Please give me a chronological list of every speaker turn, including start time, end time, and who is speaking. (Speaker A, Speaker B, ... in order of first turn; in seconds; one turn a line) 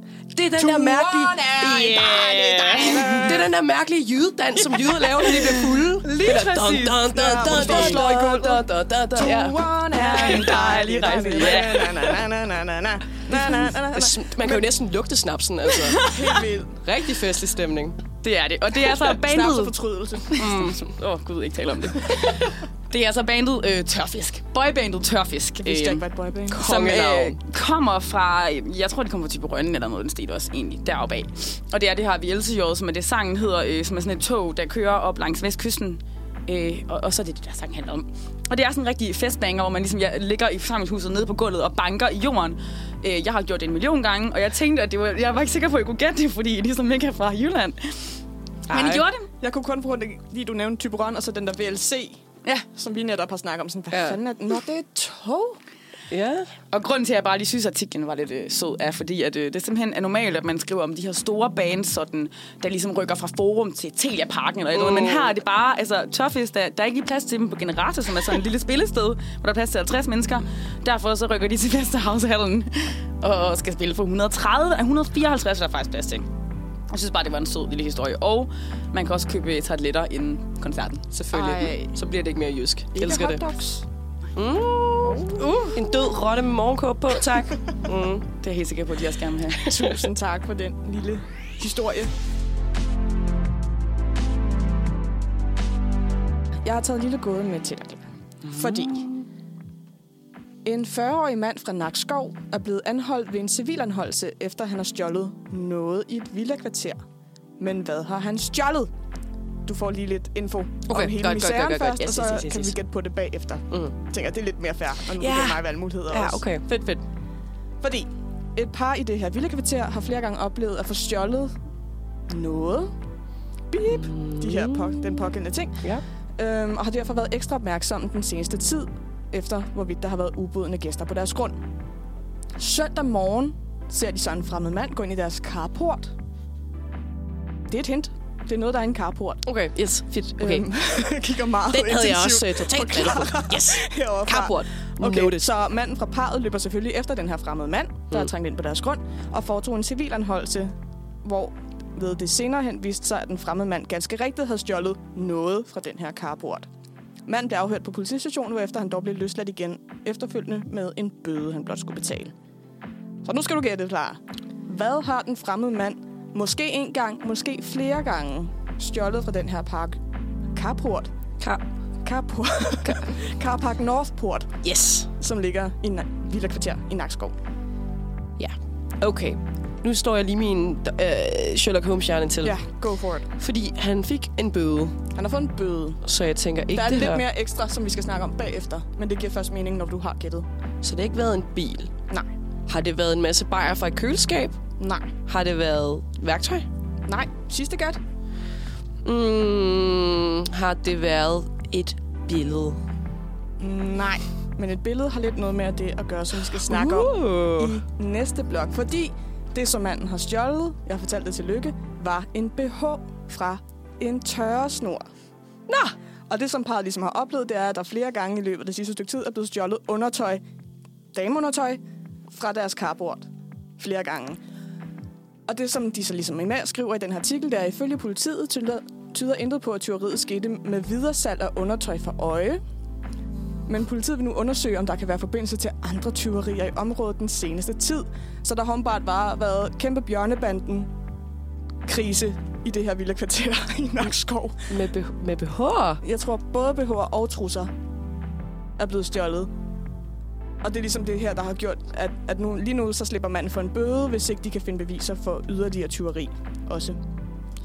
Speaker A: 0.3-2.5
Speaker B: 0.6-1.6
Speaker C: 1.3-3.4
Speaker B: 2.2-3.3
Speaker A: 3.1-11.9
Speaker C: 5.2-8.1
Speaker B: 7.1-14.7
Speaker C: 9.9-12.2
Speaker A: 13.3-16.1
Speaker C: 15.8-16.4
Speaker B: 16.0-16.8
Speaker A: 16.8-18.0
Speaker C: 18.2-19.8
Speaker B: 19.1-20.6
Speaker C: 20.3-49.3
Speaker A: 20.4-20.8
Speaker B: 25.6-26.7
Speaker A: 26.5-27.4
Speaker A: 48.7-49.0
Speaker B: 49.4-52.2
Speaker B: 52.7-55.6
Speaker A: 53.9-54.2
Speaker A: 56.1-56.5
Speaker C: 56.7-76.3
Speaker A: 64.7-65.4
Speaker C: 76.9-81.8
Speaker A: 81.3-83.4
Speaker B: 81.3-81.9
Speaker B: 83.0-83.8
Speaker A: 84.4-88.3
Speaker B: 85.0-85.7
Speaker C: 88.3-89.7
Speaker B: 89.6-92.1
Speaker B: 96.7-99.1
Speaker B: 100.6-107.0
Speaker B: 107.6-108.9
Speaker B: 109.7-116.5
Speaker A: 110.9-112.8
Speaker A: 115.2-117.0
Speaker B: 117.8-121.6
Speaker B: 122.3-122.9
Speaker B: 123.7-131.6
Speaker A: 123.8-126.0
Speaker B: 132.6-136.1
Speaker B: 137.7-139.5
Speaker A: 139.5-140.7
Speaker B: 140.4-156.7
Speaker A: 141.7-145.5
Speaker B: 157.3-162.3
Speaker B: 163.2-170.0
Speaker B: 170.5-171.1
Speaker B: 172.0-174.6
Speaker A: 174.6-175.1
Speaker B: 175.2-177.3
Speaker A: 178.4-182.8
Speaker B: 182.4-183.3
Speaker A: 183.4-185.0
Speaker B: 185.2-186.0
Speaker A: 186.0-187.2
Speaker B: 186.7-190.5
Speaker A: 190.8-191.9
Speaker A: 192.7-194.6
Speaker B: 194.8-195.1
Speaker A: 195.3-196.7
Speaker B: 197.1-198.0
Speaker A: 199.1-202.8
Speaker B: 203.6-215.1
Speaker A: 206.6-207.8
Speaker A: 215.7-215.9
Speaker B: 216.3-220.4
Speaker B: 221.1-224.4
Speaker B: 225.5-232.6
Speaker B: 233.7-240.9
Speaker B: 241.8-244.6
Speaker A: 244.7-246.0
Speaker B: 246.0-247.7
Speaker B: 248.8-249.5
Speaker B: 250.6-257.0